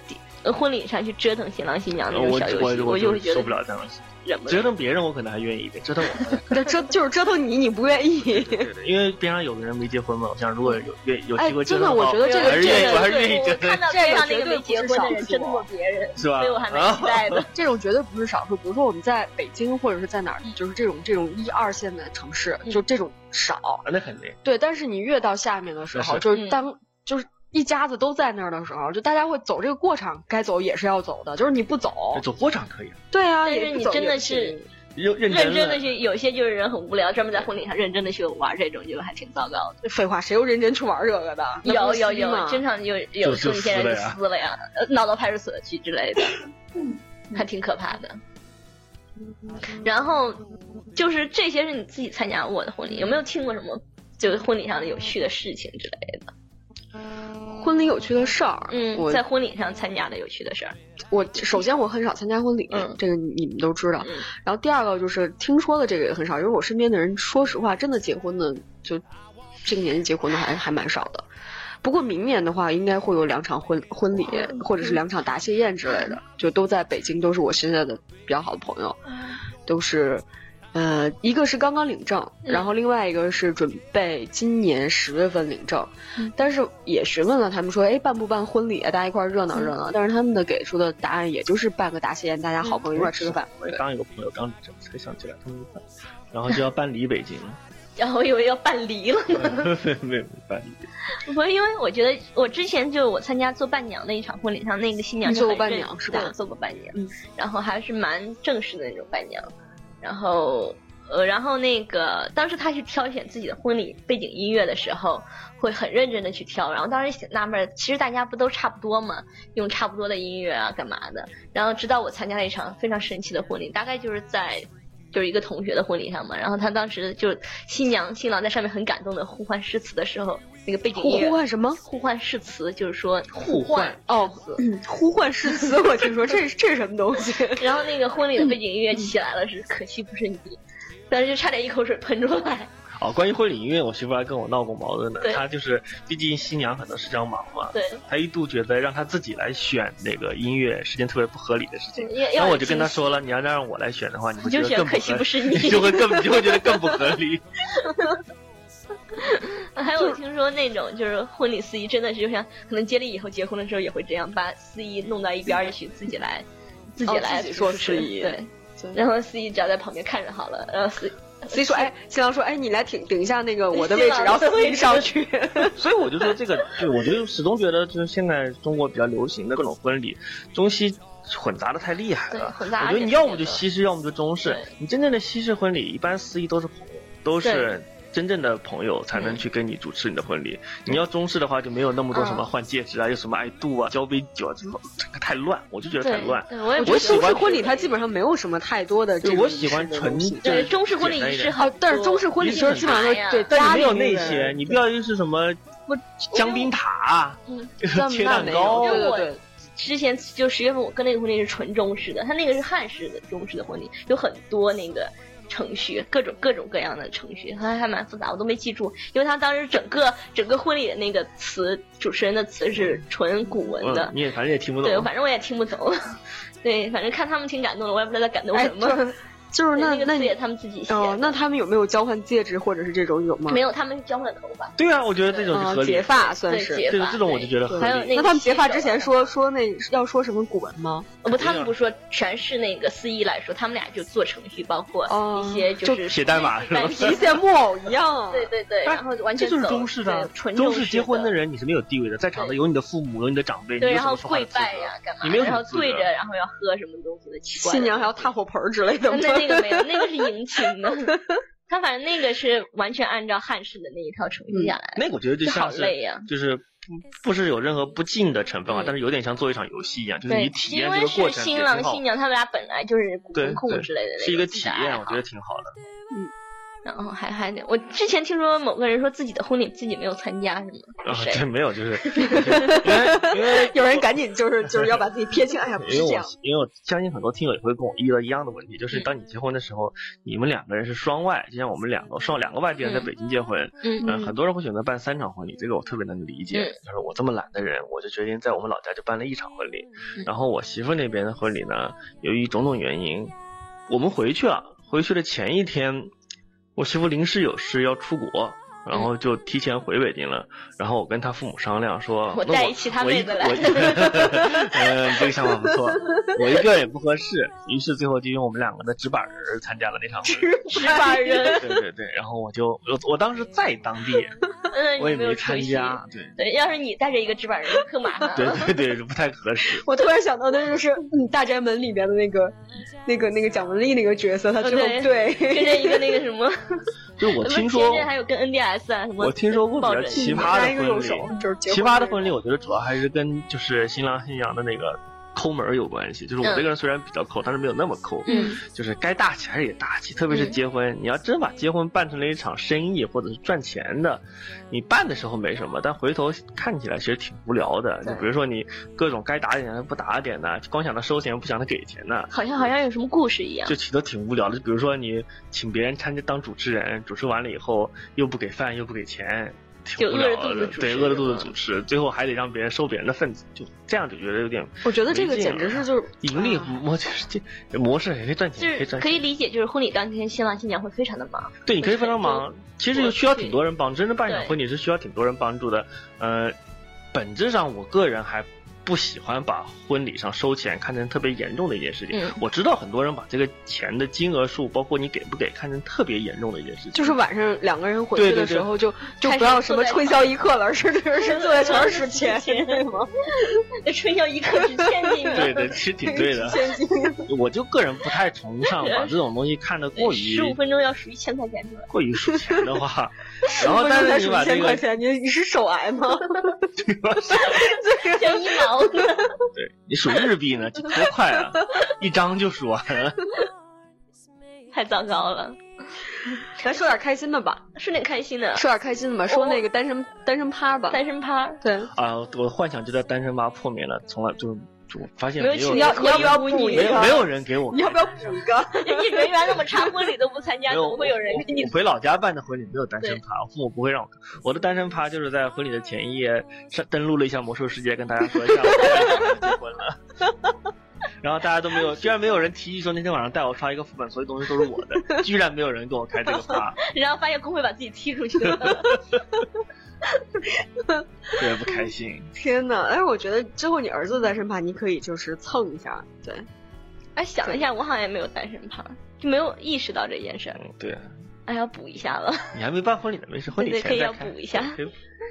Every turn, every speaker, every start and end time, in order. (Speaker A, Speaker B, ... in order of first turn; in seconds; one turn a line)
Speaker A: 0.1-3.5
Speaker B: 2.1-6.7
Speaker A: 4.2-4.7
Speaker C: 6.5-8.7
Speaker B: 8.2-13.9
Speaker C: 11.4-15.7
Speaker A: 12.2-17.5
Speaker B: 16.2-17.5
Speaker C: 17.5-23.8
Speaker B: 23.9-24.4
Speaker C: 24.4-32.2
Speaker B: 25.9-26.3
Speaker A: 26.3-26.6
Speaker B: 32.1-33.0
Speaker C: 33.1-34.7
Speaker A: 33.5-34.6
Speaker B: 35.0-35.8
Speaker A: 35.3-39.8
Speaker C: 39.8-42.6
Speaker A: 41.6-46.4
Speaker B: 43.2-44.2
Speaker A: 47.3-48.2
Speaker A: 49.7-50.4
Speaker A: 50.9-56.3
Speaker C: 57.5-59.2
Speaker A: 58.7-60.8
Speaker C: 61.1-69.0
Speaker A: 62.7-63.0
Speaker C: 69.7-71.3
Speaker C: 71.8-79.0
Speaker C: 79.7-93.8
Speaker B: 92.9-97.6
Speaker A: 98.0-99.7
Speaker B: 99.3-100.9
Speaker A: 101.2-134.0
Speaker C: 105.2-106.3
Speaker C: 130.9-131.8
Speaker B: 133.3-134.0
Speaker C: 133.9-137.7
Speaker A: 137.6-142.7
Speaker B: 143.0-157.4
Speaker A: 147.7-148.0
Speaker A: 152.0-153.2
Speaker A: 154.4-156.8
Speaker A: 159.2-171.9
Speaker C: 167.1-169.0
Speaker C: 171.5-175.8
Speaker A: 173.7-175.1
Speaker B: 175.7-197.6
Speaker A: 182.3-183.6
Speaker A: 184.4-184.7
Speaker A: 187.4-187.7
Speaker A: 189.1-189.4
Speaker A: 192.1-192.5
Speaker A: 196.0-197.9
Speaker C: 196.8-200.7
Speaker B: 199.2-201.6
Speaker A: 200.4-203.7
Speaker C: 201.6-204.8
Speaker B: 202.4-205.6
Speaker A: 205.9-206.7
Speaker B: 206.2-209.1
Speaker C: 207.9-209.4
Speaker A: 208.8-224.1
Speaker B: 223.8-225.1
Speaker A: 224.8-229.0
Speaker C: 228.5-230.3
Speaker A: 229.8-231.4
Speaker C: 230.9-233.6
Speaker A: 233.5-234.8
Speaker B: 234.8-238.2
Speaker C: 235.5-236.9
Speaker A: 236.4-239.1
Speaker C: 237.7-241.1
Speaker A: 241.2-247.4
Speaker B: 241.3-241.7
Speaker C: 245.1-246.1
Speaker B: 246.1-247.4
Speaker C: 246.9-248.5
Speaker A: 248.3-251.3
Speaker B: 248.9-256.1
Speaker A: 253.8-258.3
Speaker C: 257.6-260.3
Speaker A: 259.1-266.3
Speaker B: 264.9-272.0
Speaker A: 268.7-268.9
Speaker A: 270.3-275.2
Speaker B: 273.4-275.8
Speaker A: 276.9-281.5
Speaker B: 281.1-284.1
Speaker A: 282.1-282.8
Speaker C: 282.6-286.3
Speaker B: 285.8-303.3
Speaker A: 292.8-293.1
Speaker C: 294.0-294.4
Speaker B: 303.9-306.1
Speaker B: 306.8-320.6
Speaker A: 312.3-314.9
Speaker C: 320.2-321.8
Speaker A: 320.7-321.6
Speaker B: 321.6-324.4
Speaker A: 324.7-328.7
Speaker B: 325.0-326.4
Speaker B: 328.3-329.9
Speaker C: 329.7-336.2
Speaker A: 334.6-340.5
Speaker B: 337.2-338.1
Speaker B: 339.2-362.7
Speaker C: 340.2-342.4
Speaker A: 346.4-346.7
Speaker A: 348.3-348.6
Speaker C: 348.3-348.6
Speaker A: 350.3-350.6
Speaker A: 362.3-363.8
Speaker B: 363.7-379.2
Speaker A: 370.0-371.5
Speaker C: 374.8-376.8
Speaker A: 378.6-383.6
Speaker B: 381.7-386.6
Speaker A: 384.3-384.5
Speaker B: 387.1-397.2
Speaker A: 392.1-392.4
Speaker C: 396.9-403.5
Speaker B: 398.1-398.7
Speaker A: 399.2-400.3
Speaker A: 401.2-405.7
Speaker C: 404.6-405.4
Speaker B: 405.3-406.7
Speaker C: 406.0-407.3
Speaker B: 407.3-410.6
Speaker A: 408.7-409.1
Speaker A: 410.0-411.9
Speaker B: 411.9-414.9
Speaker C: 413.6-416.7
Speaker B: 416.8-417.7
Speaker C: 417.3-419.2
Speaker A: 417.5-419.4
Speaker B: 419.5-423.3
Speaker A: 424.7-425.6
Speaker C: 426.6-427.6
Speaker A: 427.8-428.7
Speaker C: 428.6-431.0
Speaker A: 429.3-429.6
Speaker A: 430.9-431.6
Speaker C: 431.6-431.9
Speaker B: 431.9-438.4
Speaker A: 435.4-437.2
Speaker C: 435.7-439.3
Speaker A: 438.7-441.7
Speaker B: 440.7-450.0
Speaker B: 451.2-456.8
Speaker A: 456.8-459.1
Speaker B: 461.3-462.3
Speaker C: 462.4-466.5
Speaker A: 467.2-470.6
Speaker B: 470.6-471.1
Speaker A: 471.5-472.6
Speaker B: 472.5-474.9
Speaker A: 473.6-474.8